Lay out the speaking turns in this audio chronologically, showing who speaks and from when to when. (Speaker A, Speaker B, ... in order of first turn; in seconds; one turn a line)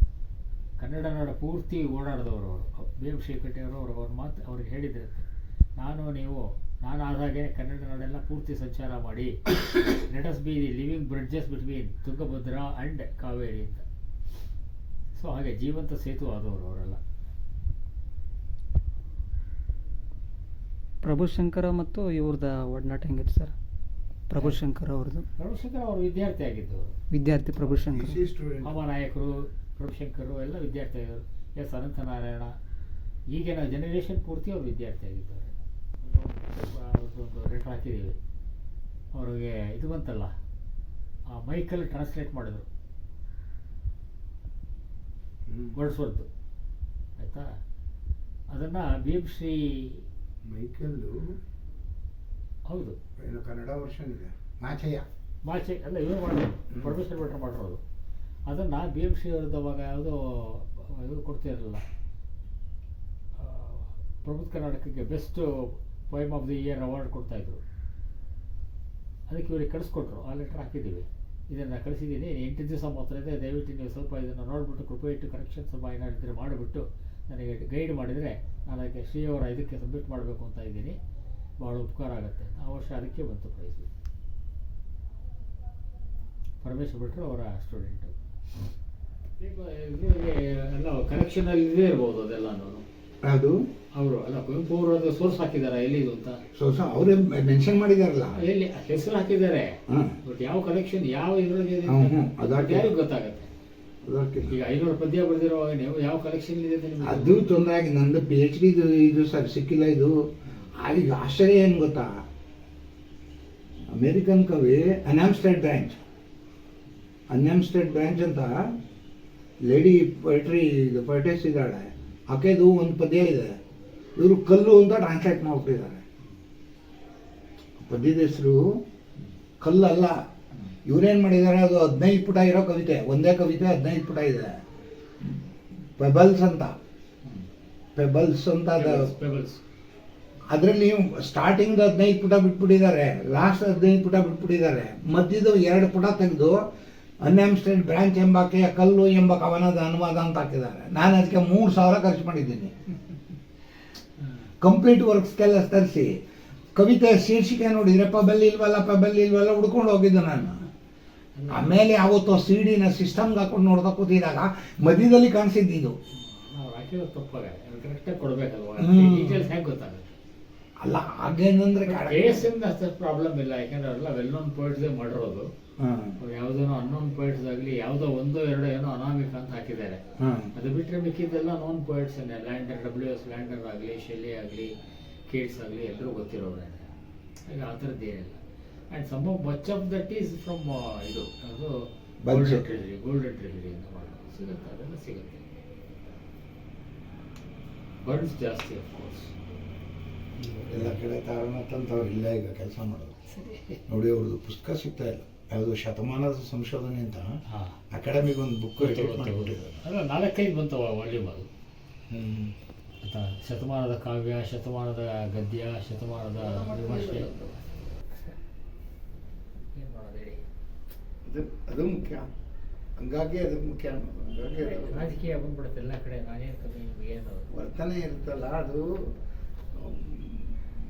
Speaker A: 0.8-5.2
Speaker A: 5.8-13.8
Speaker A: 15.1-17.0
Speaker B: 21.0-23.5
Speaker B: 24.3-25.2
Speaker A: 25.4-26.9
Speaker B: 27.1-28.2
Speaker C: 27.9-28.7
Speaker A: 28.6-32.5
Speaker A: 33.3-38.2
Speaker A: 39.1-40.3
Speaker A: 41.3-42.7
Speaker A: 45.7-46.3
Speaker A: 47.2-47.5
Speaker A: 48.5-50.0
Speaker C: 50.5-51.1
Speaker A: 52.7-53.0
Speaker C: 53.2-54.7
Speaker A: 55.5-57.8
Speaker C: 56.7-57.0
Speaker A: 58.5-61.8
Speaker A: 63.4-67.6
Speaker A: 69.3-81.0
Speaker A: 81.6-83.9
Speaker A: 86.6-88.1
Speaker A: 89.4-92.8
Speaker C: 93.2-93.6
Speaker A: 93.9-96.4
Speaker C: 96.5-98.4
Speaker A: 98.3-103.5
Speaker C: 99.9-100.2
Speaker C: 101.8-102.9
Speaker C: 104.0-104.6
Speaker A: 104.5-107.5
Speaker C: 107.0-112.2
Speaker C: 113.9-116.0
Speaker C: 117.3-118.7
Speaker C: 119.7-123.5
Speaker C: 124.2-126.0
Speaker C: 127.8-128.8
Speaker C: 129.6-130.2
Speaker C: 130.8-134.6
Speaker C: 136.0-136.7
Speaker C: 137.9-139.1
Speaker A: 138.7-139.6
Speaker C: 140.5-146.6
Speaker C: 147.2-152.9
Speaker A: 154.2-154.5
Speaker C: 154.6-156.1
Speaker C: 156.7-160.7
Speaker A: 161.3-161.8
Speaker C: 161.5-165.9
Speaker A: 166.1-170.2
Speaker C: 168.8-169.5
Speaker C: 170.8-172.5
Speaker A: 171.8-175.5
Speaker C: 175.8-176.2
Speaker A: 176.2-180.0
Speaker C: 180.2-180.5
Speaker A: 180.5-184.7
Speaker A: 185.3-186.9
Speaker A: 187.4-195.4
Speaker C: 192.2-192.7
Speaker A: 198.0-199.3
Speaker A: 200.4-201.0
Speaker C: 200.5-203.1
Speaker A: 203.3-203.8
Speaker C: 203.9-207.3
Speaker A: 207.4-207.8
Speaker C: 207.9-209.7
Speaker A: 208.8-211.5
Speaker C: 212.1-212.5
Speaker A: 213.0-217.4
Speaker C: 216.4-217.6
Speaker A: 218.1-218.4
Speaker A: 219.8-220.4
Speaker C: 221.3-222.2
Speaker C: 223.0-225.2
Speaker A: 224.6-227.5
Speaker C: 227.5-228.9
Speaker C: 229.7-230.5